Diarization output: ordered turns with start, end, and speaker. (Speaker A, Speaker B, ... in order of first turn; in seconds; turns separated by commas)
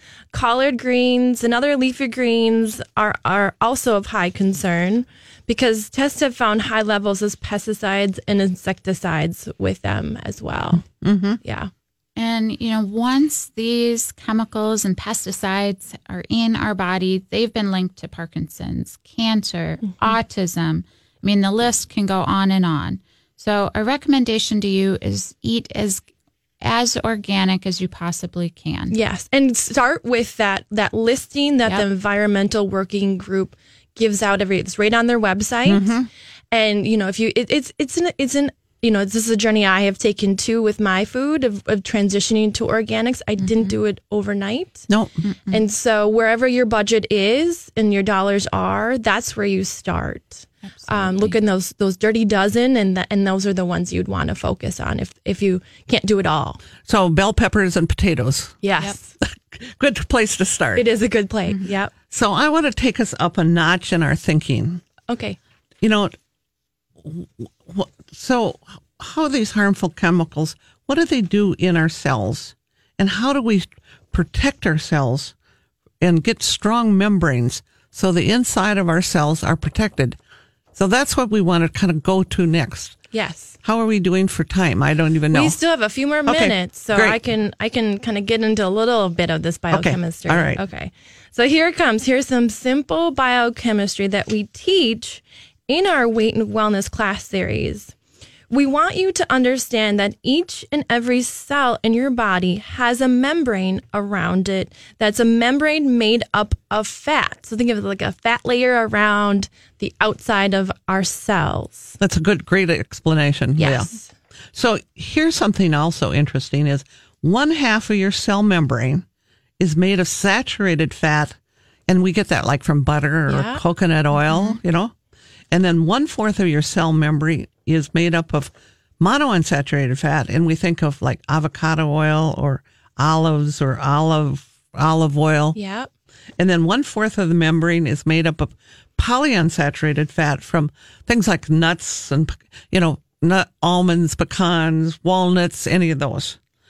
Speaker A: 0.3-10.8, Speaker B: 10.9-11.4, Speaker A: 11.4-11.7, Speaker C: 12.2-26.1, Speaker C: 26.6-29.0, Speaker A: 28.9-35.9, Speaker B: 35.7-36.1, Speaker A: 36.5-44.9, Speaker C: 43.4-43.8, Speaker C: 45.2-45.6, Speaker A: 45.5-56.6, Speaker C: 50.7-51.4, Speaker B: 56.8-58.6, Speaker A: 58.6-59.1, Speaker B: 59.2-60.9, Speaker A: 60.8-61.9, Speaker B: 62.1-64.8, Speaker A: 65.1-65.4, Speaker B: 65.8-66.2, Speaker B: 67.0-75.3, Speaker B: 76.0-80.2, Speaker B: 80.8-83.0, Speaker A: 83.1-83.5, Speaker B: 83.6-85.6, Speaker A: 85.3-97.9, Speaker B: 86.2-87.2, Speaker B: 89.7-90.6, Speaker A: 98.5-112.0, Speaker B: 112.0-113.9, Speaker A: 113.6-114.1, Speaker B: 114.5-119.0, Speaker B: 119.6-121.4, Speaker B: 121.9-124.9, Speaker A: 123.3-123.6, Speaker C: 124.2-124.6, Speaker B: 125.5-135.6, Speaker A: 135.5-135.9, Speaker B: 136.4-146.4